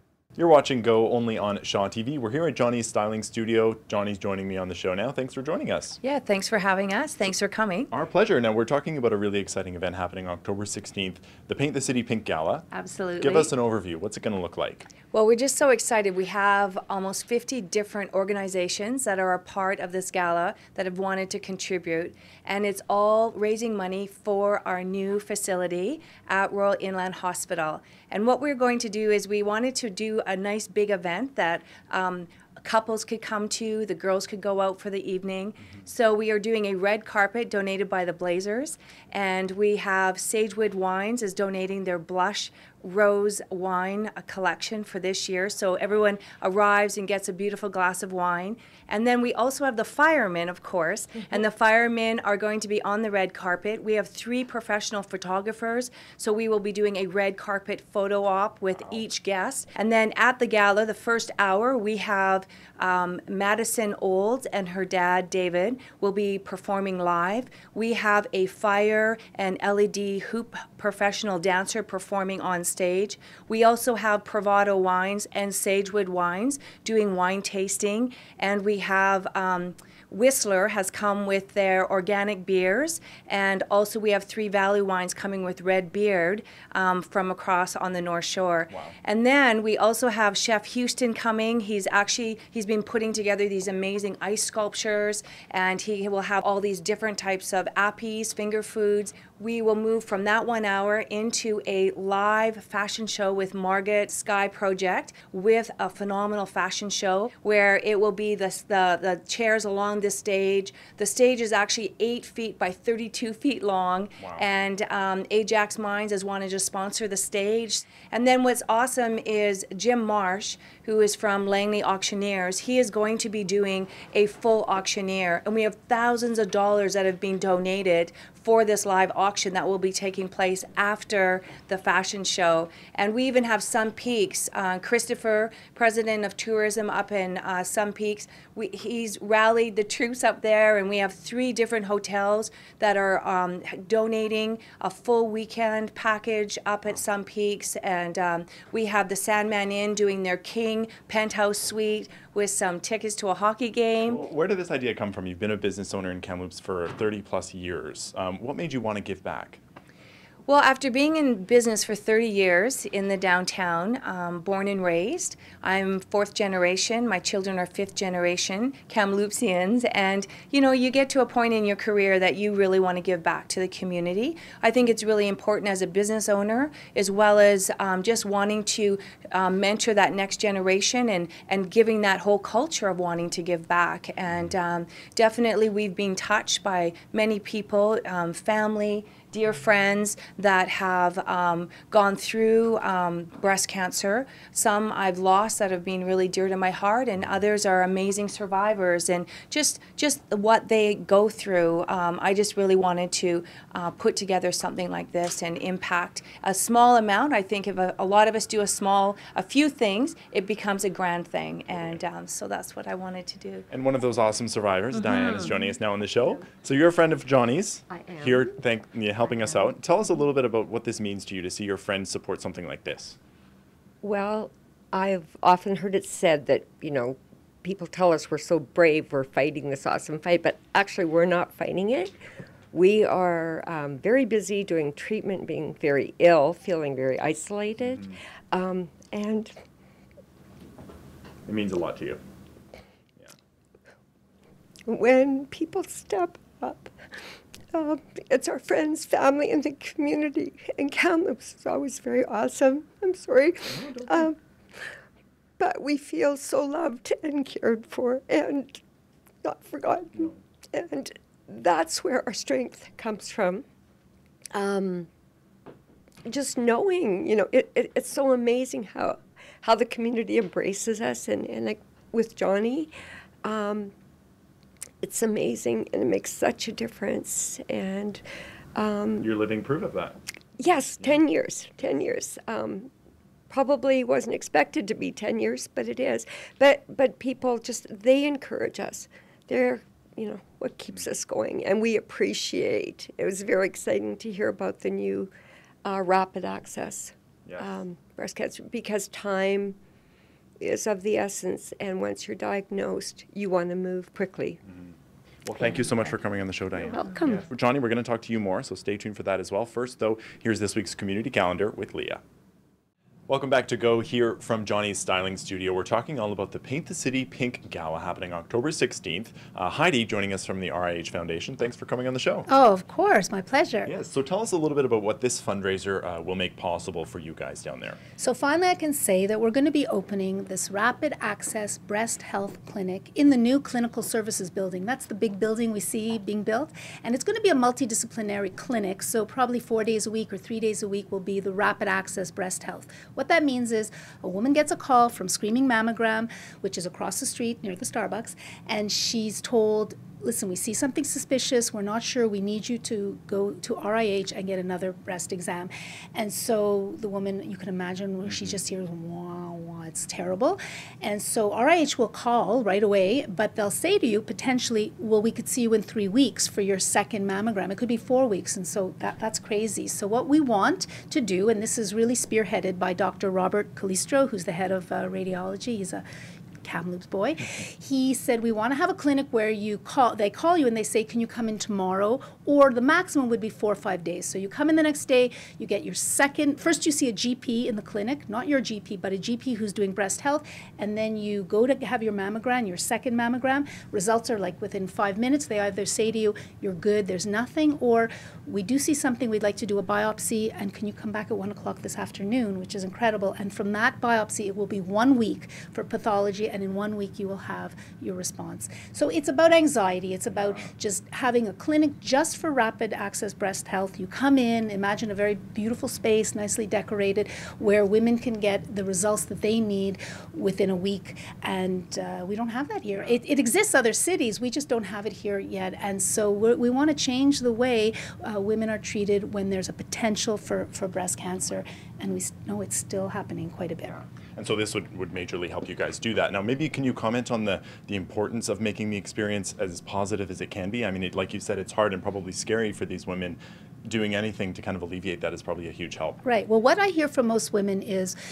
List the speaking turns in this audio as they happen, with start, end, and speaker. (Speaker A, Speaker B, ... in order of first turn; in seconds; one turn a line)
Speaker A: 0.3-6.0
Speaker B: 6.0-7.9
Speaker A: 7.9-12.7
Speaker B: 12.7-13.5
Speaker A: 13.2-14.9
Speaker B: 15.1-154.2
Speaker A: 154.0-159.6
Speaker B: 160.5-213.7
Speaker A: 213.7-223.2
Speaker C: 217.9-218.4
Speaker C: 224.0-232.1
Speaker C: 232.7-239.5
Speaker A: 241.4-242.2
Speaker C: 244.9-246.9
Speaker C: 247.7-254.4
Speaker C: 255.6-258.8
Speaker C: 259.4-263.6
Speaker C: 264.5-265.1
Speaker C: 266.2-272.9
Speaker C: 273.4-273.9
Speaker C: 275.0-278.2
Speaker C: 278.8-279.3
Speaker A: 279.2-280.1
Speaker C: 280.6-282.9
Speaker C: 283.5-295.3
Speaker C: 295.8-299.8
Speaker A: 297.4-297.8
Speaker C: 300.6-304.6
Speaker A: 305.4-312.2
Speaker C: 306.9-307.4
Speaker A: 313.3-322.5
Speaker D: 322.5-323.9
Speaker A: 323.8-328.0
Speaker D: 328.2-376.0
Speaker D: 376.6-434.0
Speaker A: 434.4-446.2
Speaker D: 446.2-448.1